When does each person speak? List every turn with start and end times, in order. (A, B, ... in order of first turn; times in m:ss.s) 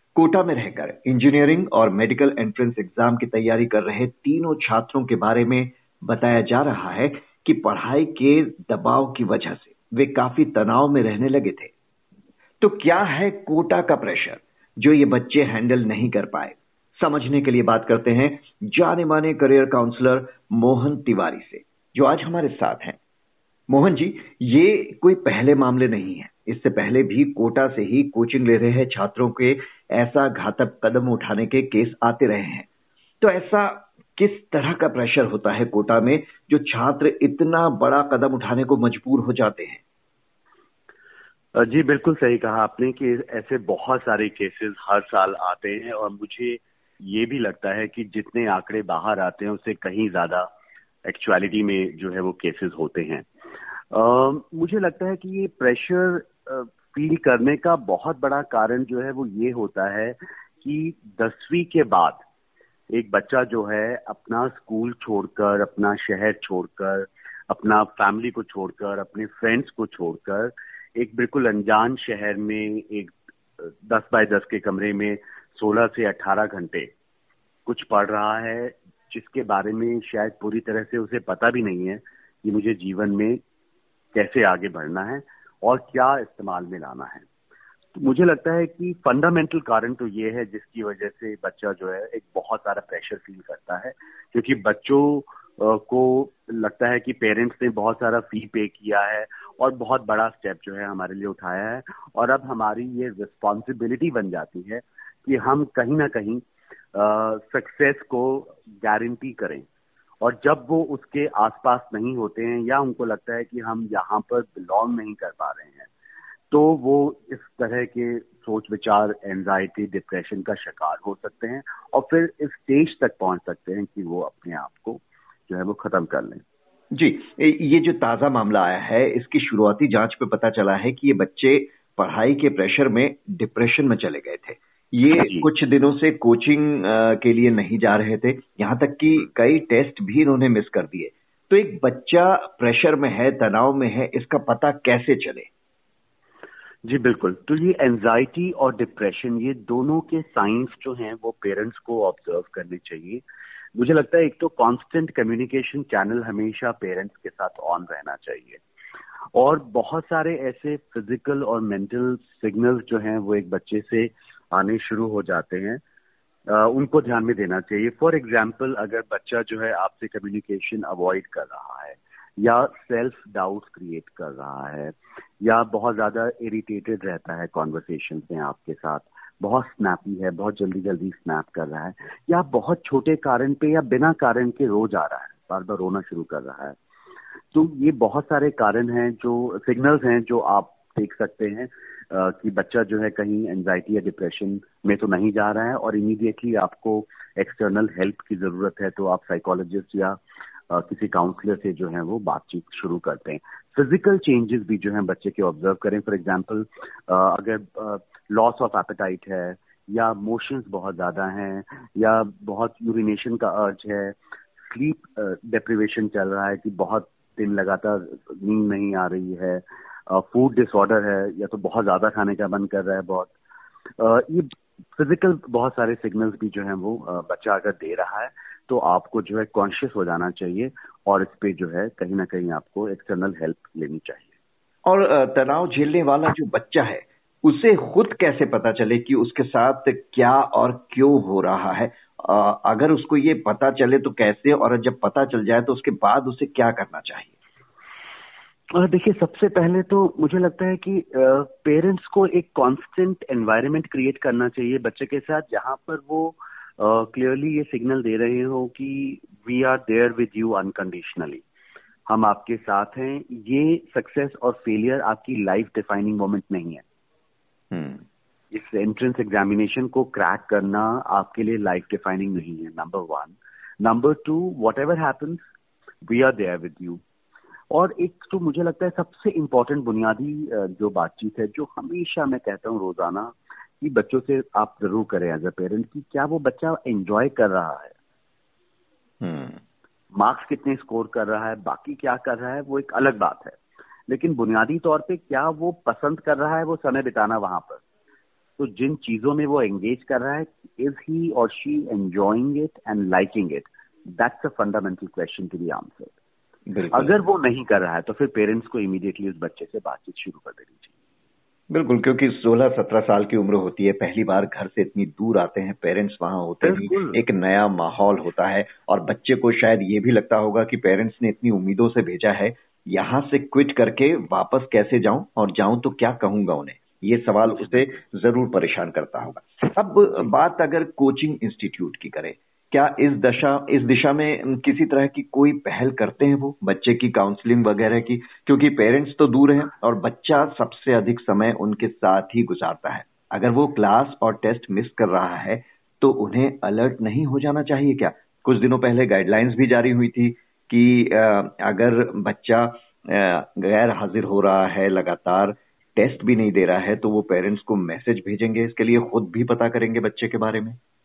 0:00.2-0:11.7 A
0:12.6-0:23.0 A
0:23.7-0:32.7 A
0:33.2-0:39.8 A
0:41.6-0:50.5 B
0:51.0-0:53.3 B
0:53.9-1:02.2 B
1:02.9-1:13.1 B
1:13.9-1:16.9 B
1:17.7-1:23.4 B
1:24.1-1:27.3 B
1:28.0-1:49.7 B
1:50.2-1:55.9 B
1:56.5-2:06.4 B
2:06.9-2:25.5 A
2:15.1-2:15.5 B
2:26.8-2:33.2 B
2:33.8-2:38.6 B
2:39.4-2:45.8 B
2:46.5-3:06.8 B
3:07.5-3:20.2 B
3:20.7-3:34.2 B
3:34.7-3:43.3 B
3:44.0-3:54.3 B
3:54.9-4:07.3 A
4:08.8-4:21.4 B
4:22.1-4:26.8 B
4:27.7-4:28.0 A
4:28.5-4:35.4 B
4:36.0-4:37.0 B
4:37.7-4:48.0 B
4:49.2-4:49.6 A
4:50.1-4:57.8 B
4:58.6-5:06.1 B
5:06.7-5:07.1 A
5:06.9-5:10.9 B
5:11.7-6:00.8 A
5:16.6-5:17.2 B